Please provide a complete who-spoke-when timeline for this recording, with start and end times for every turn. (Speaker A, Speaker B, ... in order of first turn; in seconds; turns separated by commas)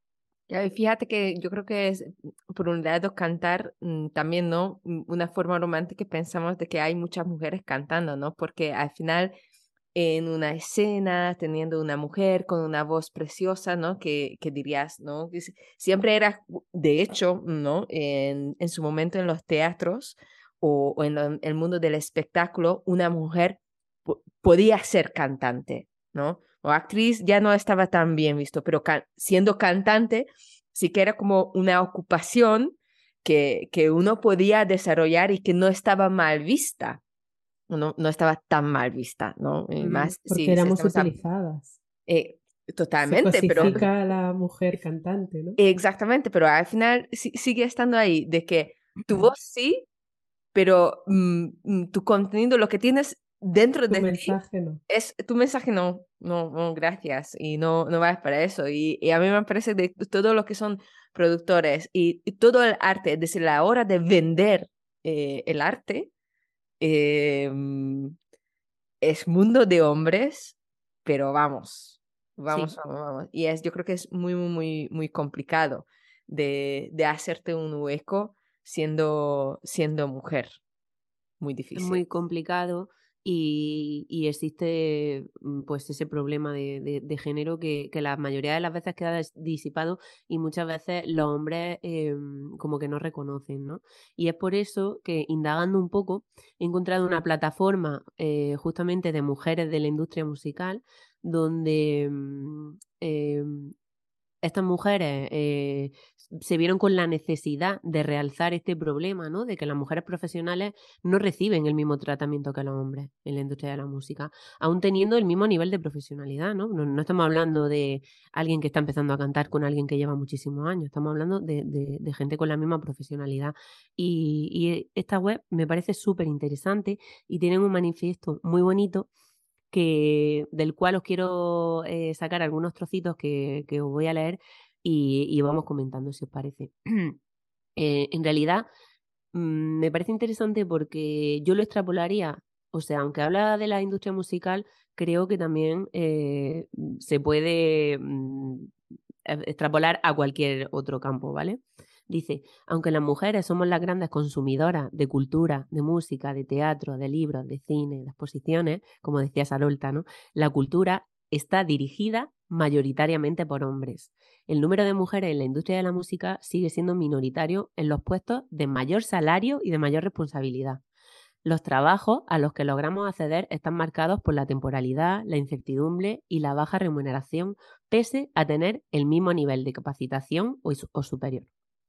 Speaker A: 0.5-9.3, Speaker A: 9.9-37.0, Speaker A: 37.7-41.1, Speaker B: 39.8-41.8, Speaker A: 42.1-43.9, Speaker B: 43.0-45.6, Speaker A: 45.6-49.9, Speaker A: 50.5-54.4, Speaker B: 53.9-54.8, Speaker A: 54.9-66.1, Speaker A: 66.8-68.2, Speaker A: 69.0-80.6, Speaker A: 81.4-82.0, Speaker C: 81.8-103.7, Speaker C: 104.4-129.1, Speaker C: 129.7-137.2, Speaker C: 137.8-138.7, Speaker C: 139.3-148.7, Speaker C: 149.3-170.8, Speaker C: 171.4-181.5